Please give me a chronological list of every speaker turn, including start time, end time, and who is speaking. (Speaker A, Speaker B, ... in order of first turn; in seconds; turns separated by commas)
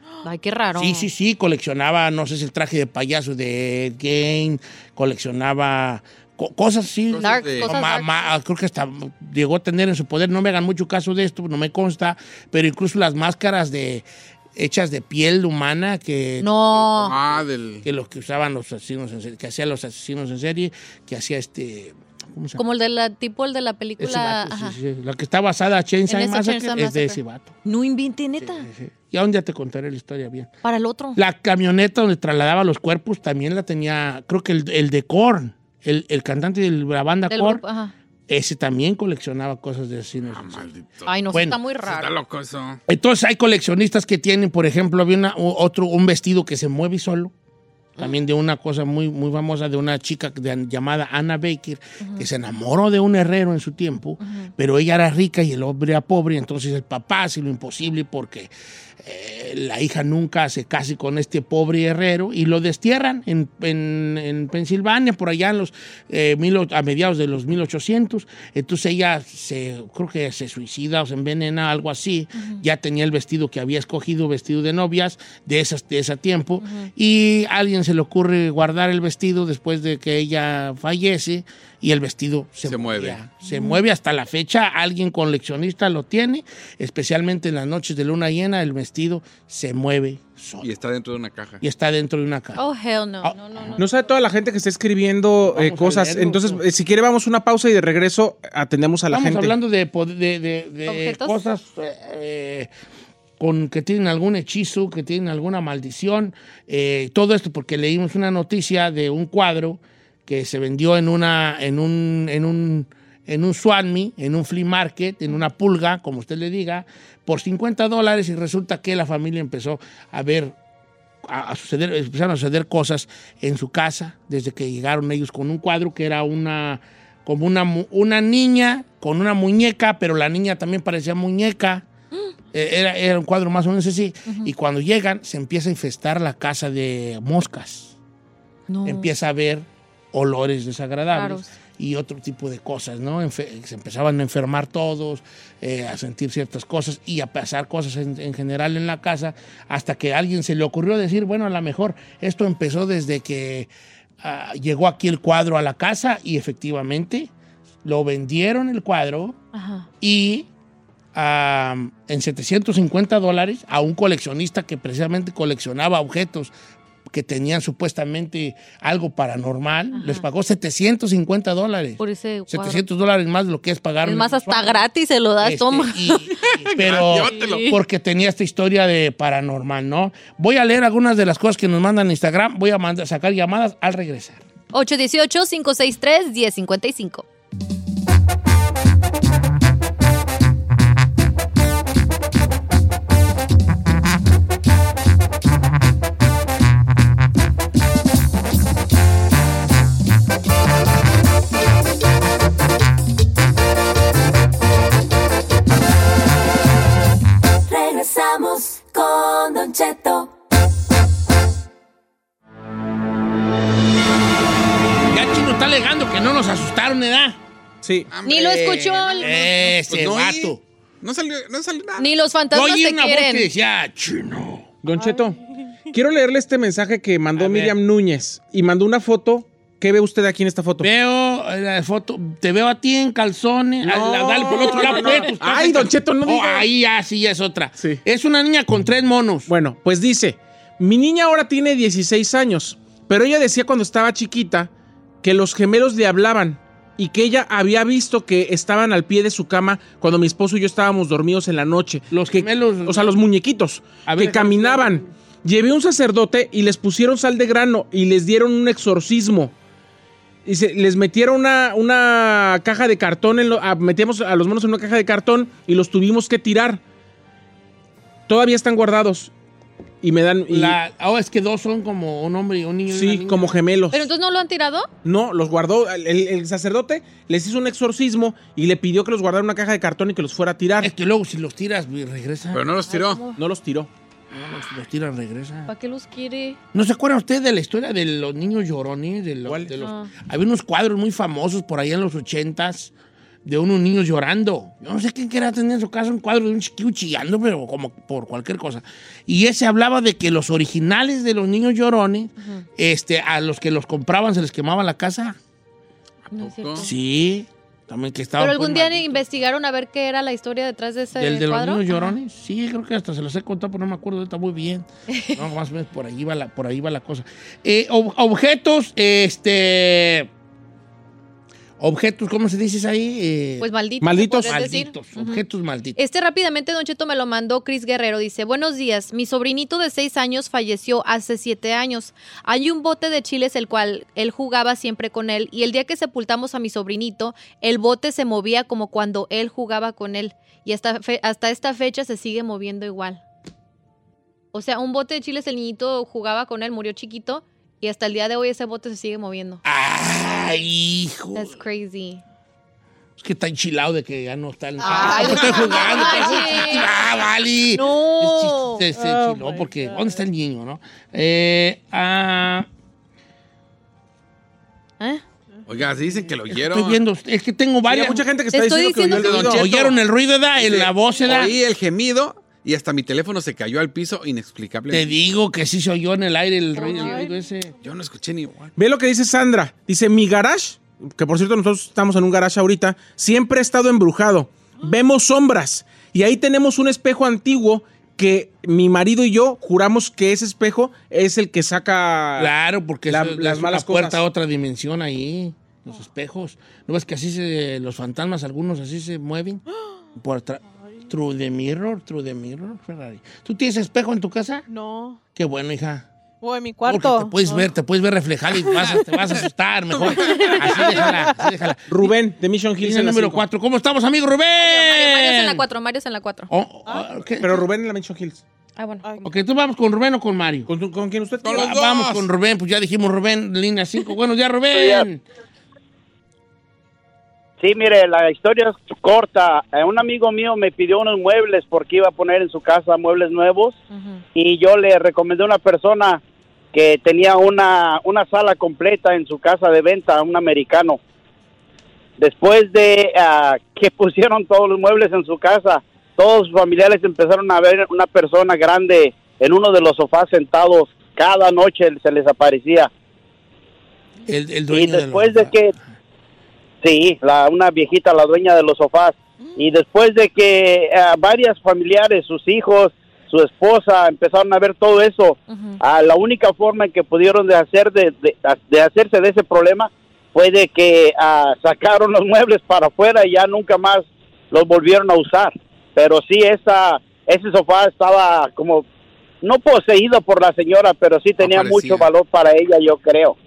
Speaker A: 0.2-1.1, Speaker B: 0.8-22.6, Speaker C: 7.1-7.8, Speaker A: 7.2-8.3, Speaker A: 16.4-17.2, Speaker C: 16.9-17.9, Speaker A: 22.6-24.8, Speaker B: 24.0-27.6, Speaker A: 26.1-28.7, Speaker B: 28.4-30.5, Speaker A: 30.6-31.2, Speaker B: 31.2-37.6, Speaker A: 37.3-37.9, Speaker B: 38.3-40.7, Speaker C: 40.3-41.2, Speaker A: 41.1-42.1, Speaker B: 41.3-41.6, Speaker C: 41.7-42.8, Speaker B: 42.9-47.3, Speaker B: 48.0-58.5, Speaker A: 52.0-52.3, Speaker A: 54.2-54.5, Speaker B: 59.0-90.7, Speaker A: 72.4-72.6, Speaker A: 76.6-76.9, Speaker C: 82.6-83.3, Speaker A: 83.4-83.8, Speaker C: 90.6-91.6, Speaker B: 91.6-92.6, Speaker A: 92.6-93.9, Speaker B: 93.2-93.8, Speaker D: 93.8-99.5, Speaker B: 95.5-96.6, Speaker B: 99.1-102.7, Speaker A: 100.9-101.4, Speaker B: 103.4-120.5, Speaker B: 121.3-131.8, Speaker B: 132.5-137.9, Speaker A: 134.3-134.5, Speaker A: 138.7-139.1, Speaker B: 138.8-153.7, Speaker A: 141.1-141.6, Speaker B: 154.2-157.3, Speaker B: 157.8-159.4, Speaker A: 159.5-159.9, Speaker B: 160.0-160.5, Speaker B: 161.2-166.5, Speaker B: 167.1-174.8, Speaker A: 169.9-170.3, Speaker A: 172.0-172.8, Speaker A: 174.0-176.3, Speaker B: 175.4-184.4, Speaker C: 176.5-177.8, Speaker A: 177.1-177.8, Speaker A: 184.7-187.2, Speaker E: 207.7-210.3, Speaker B: 215.1-217.4, Speaker D: 217.8-218.1, Speaker C: 218.1-222.1, Speaker A: 218.2-219.4, Speaker B: 219.1-220.6, Speaker A: 222.0-223.5, Speaker B: 222.5-224.7, Speaker D: 224.8-225.4, Speaker F: 224.9-225.8, Speaker D: 225.9-230.9, Speaker B: 227.4-227.8, Speaker B: 230.8-239.5, Speaker D: 233.8-236.7, Speaker F: 234.5-235.2, Speaker D: 239.5-244.7, Speaker D: 245.2-259.5, Speaker B: 252.1-253.2, Speaker B: 254.1-255.1, Speaker D: 260.4-266.8, Speaker D: 268.3-269.3, Speaker D: 270.0-270.8, Speaker B: 270.5-273.6, Speaker D: 272.9-274.1, Speaker A: 273.9-274.9, Speaker D: 275.0-280.9, Speaker B: 280.8-282.7, Speaker C: 282.5-283.3, Speaker A: 282.8-283.4, Speaker D: 283.4-283.9, Speaker B: 284.3-285.7, Speaker A: 285.7-286.6, Speaker B: 286.7-292.9, Speaker A: 289.7-290.1, Speaker B: 293.4-305.4, Speaker A: 302.4-302.7, Speaker C: 306.3-306.9, Speaker A: 306.3-307.0, Speaker B: 306.8-309.3, Speaker A: 308.4-312.2, Speaker B: 311.2-320.3, Speaker A: 315.1-315.4, Speaker B: 321.8-323.7, Speaker A: 323.6-325.4, Speaker D: 324.0-324.7, Speaker B: 324.3-326.0, Speaker A: 326.0-343.2, Speaker A: 344.5-349.6, Speaker B: 349.6-351.5, Speaker A: 351.3-352.2, Speaker B: 353.2-362.7, Speaker F: 354.8-355.5, Speaker A: 354.8-357.1, Speaker C: 354.9-356.7, Speaker A: 357.7-358.9, Speaker F: 358.9-360.2, Speaker F: 365.5-366.3, Speaker C: 365.7-367.0, Speaker B: 366.5-368.3, Speaker D: 367.9-370.0, Speaker A: 368.5-369.5, Speaker C: 369.1-369.9, Speaker B: 369.3-371.6, Speaker C: 370.6-375.2, Speaker B: 374.9-377.7, Speaker F: 376.8-377.5, Speaker A: 376.8-377.2, Speaker C: 377.8-378.7, Speaker D: 378.8-392.5, Speaker B: 392.4-399.6, Speaker D: 393.1-394.2, Speaker B: 400.2-404.6, Speaker F: 404.7-405.2, Speaker B: 405.4-406.1, Speaker F: 406.4-407.7, Speaker B: 406.8-411.8, Speaker F: 408.5-409.5, Speaker F: 410.1-411.5, Speaker C: 410.5-410.8, Speaker D: 411.9-413.4, Speaker B: 412.8-415.6, Speaker A: 414.5-416.5, Speaker B: 416.5-417.6, Speaker F: 416.9-417.3, Speaker D: 417.4-418.4, Speaker A: 418.8-419.1, Speaker F: 419.0-419.4, Speaker B: 419.2-420.7, Speaker D: 420.7-421.8, Speaker C: 421.4-422.3, Speaker B: 421.5-425.2, Speaker G: 424.7-425.1, Speaker G: 427.6-433.8, Speaker A: 433.9-434.2, Speaker G: 434.4-436.2, Speaker G: 436.7-441.0, Speaker G: 442.2-452.9, Speaker B: 454.3-455.8, Speaker G: 454.7-455.7, Speaker G: 456.8-478.9, Speaker A: 465.5-465.8, Speaker G: 479.4-483.4, Speaker C: 481.4-482.1